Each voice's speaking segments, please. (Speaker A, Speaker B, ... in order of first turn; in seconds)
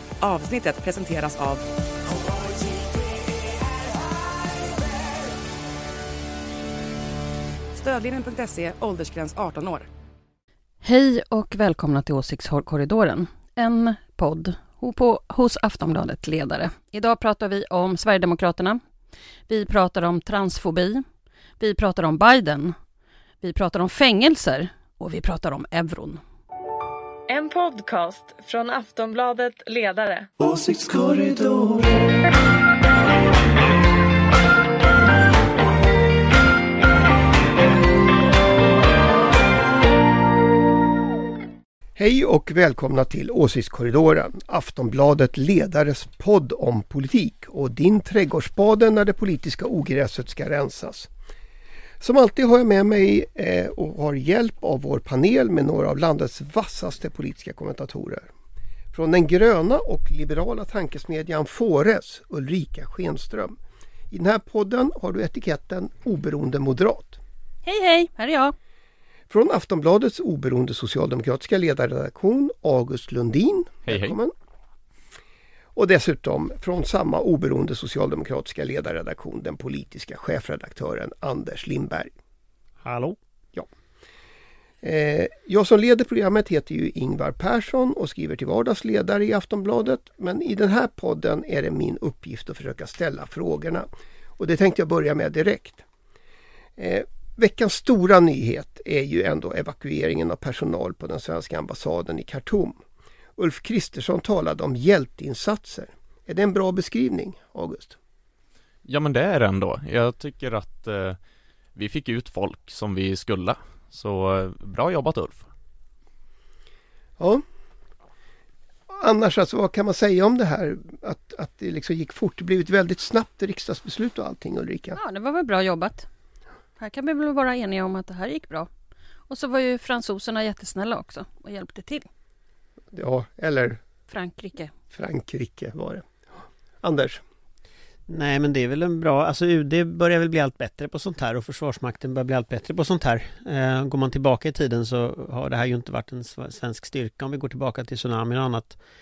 Speaker A: 0.2-1.6, 7.7-9.9
Speaker B: 10.8-18.8, 19.5-21.0, 21.6-22.8, 23.4-26.2, 67.7-68.5, 124.9-126.0, 126.8-128.7, 129.3-132.1, 134.1-134.7
Speaker C: 27.3-30.3
Speaker D: 42.0-51.1, 52.0-58.3, 58.9-63.5, 64.1-67.2, 69.3-74.3, 75.8-82.1, 84.8-93.9, 94.4-95.8, 96.8-102.8, 103.4-108.0, 118.9-125.0, 132.9-133.8, 134.9-136.1, 136.8-137.2
Speaker E: 73.8-74.1, 108.9-111.2, 111.7-115.5
Speaker F: 82.8-83.2, 138.1-148.8